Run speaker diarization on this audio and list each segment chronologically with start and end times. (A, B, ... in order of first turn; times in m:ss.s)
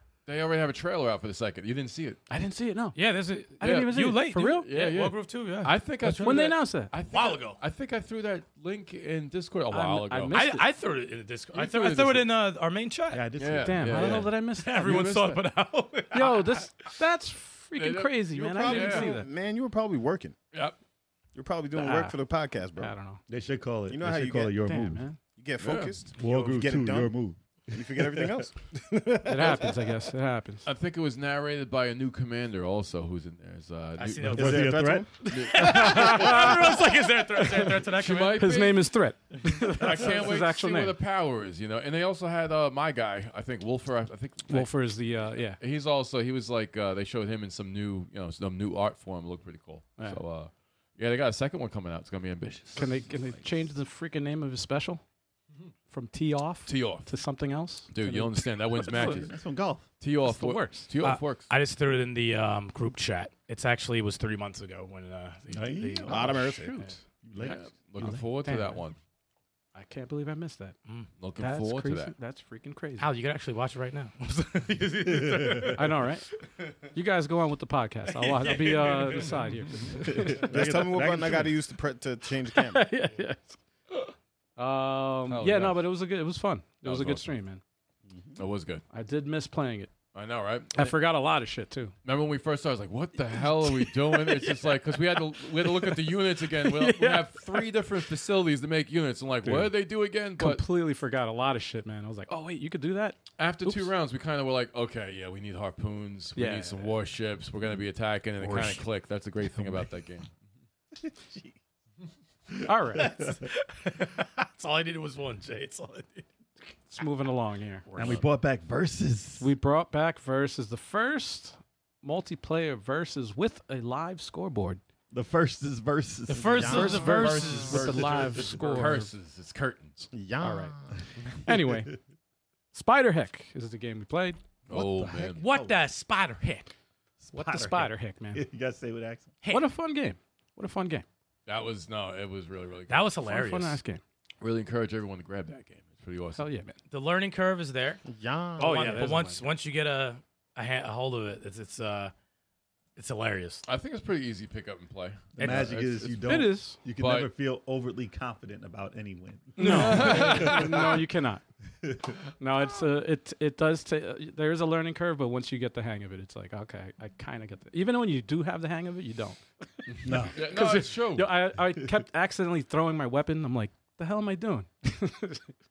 0:00.2-0:02.2 A
0:02.3-0:03.0 B
0:02.9-0:07.6 C
0:03.6-0:04.7 B
0:03.6-0:10.4 A
0:06.1-0:06.9 B
0:09.7-0:10.7 B
0:10.3-0:13.3 C
0:11.6-0:12.2 A
0:11.6-0:12.2 B
0:13.1-0:14.3 D
0:13.4-0:15.4 A
0:13.6-0:15.2 B
0:14.1-0:16.7 C
0:16.1-0:19.3 B
0:17.8-0:19.2 A
0:18.3-0:20.4 E
0:21.3-0:22.9 E
0:21.7-0:22.2 B
0:22.8-0:23.2 B
0:23.3-0:25.0 D
0:23.9-0:24.6 E
0:24.6-0:25.2 B
0:25.3-0:27.1 E
0:25.6-0:25.9 A
0:26.1-0:28.4 D
0:27.7-0:29.9 E
0:29.2-0:30.7 B
0:30.6-0:34.6 A
0:34.0-0:38.4 C
0:34.3-0:35.1 D
0:34.4-0:35.2 E
0:35.2-0:37.4 B
0:35.3-0:36.2 A
0:37.4-0:39.0 A
0:38.3-0:41.0 B
0:39.7-0:53.0 A
0:44.5-0:45.6 B
0:52.7-0:55.0 B
0:53.2-0:53.4 D
0:55.9-0:59.2 B
0:56.6-0:57.1 A
0:57.9-0:59.3 A
0:58.8-0:59.9 D
1:00.0-1:01.5 A
1:00.2-1:00.9 B
1:01.0-1:06.9 C
1:05.5-1:06.3 D
1:06.1-1:06.8 E
1:06.3-1:07.0 B
1:07.2-1:07.6 D
1:07.4-1:09.0 A
1:08.0-1:08.8 B
1:09.7-1:10.8 B
1:11.2-1:12.1 A
1:11.4-1:13.1 B
1:13.0-1:16.0 C
1:15.0-1:15.8 D
1:15.7-1:16.3 B
1:16.9-1:20.5 B
1:18.1-1:19.4 C
1:20.0-1:21.6 D
1:20.2-1:23.0 E
1:22.4-1:27.6 B
1:25.3-1:25.9 A
1:26.8-1:27.4 A
1:28.1-1:28.4 D
1:28.4-1:28.8 A
1:28.9-1:29.9 B
1:30.1-1:31.0 A
1:30.7-1:31.9 B
1:32.0-1:40.7 A
1:33.3-1:37.7 B
1:39.4-1:39.7 D
1:40.4-1:43.9 B
1:43.4-1:50.3 A
1:46.4-1:46.9 B
1:49.6-1:49.8 D
1:51.1-1:51.4 D
1:52.5-1:53.4 D
1:52.6-1:53.3 B
1:53.0-1:56.2 C
1:56.9-1:57.8 B
1:57.8-1:58.2 C
1:58.0-1:59.5 D
1:59.4-2:04.8 B
2:05.1-2:08.9 D
2:06.3-2:08.1 C
2:06.5-2:07.8 E
2:06.6-2:09.1 B
2:07.0-2:10.1 A
2:10.1-2:11.0 E
2:10.4-2:10.7 B
2:11.4-2:12.0 B
2:11.4-2:12.0 D
2:12.7-2:14.4 B
2:14.7-2:15.7 D
2:14.7-2:15.4 A
2:15.4-2:16.7 C
2:17.2-2:19.3 D
2:17.3-2:18.4 B
2:19.4-2:19.7 C
2:19.5-2:21.0 B
2:21.4-2:23.1 A
2:22.9-2:23.8 C
2:23.2-2:24.0 B
2:24.4-2:26.4 A
2:26.4-2:26.8 B
2:26.9-2:28.0 C
2:28.0-2:29.2 E
2:28.6-2:29.5 B
2:28.6-2:32.1 C
2:33.0-2:33.6 C
2:33.6-2:36.5 A
2:35.3-2:40.9 D
2:36.2-2:36.8 B
2:37.0-2:37.3 A
2:39.6-2:41.4 B
2:39.6-2:41.0 A
2:41.8-2:42.2 D
2:42.4-2:55.5 B
2:49.9-2:51.4 A
2:50.0-2:50.4 D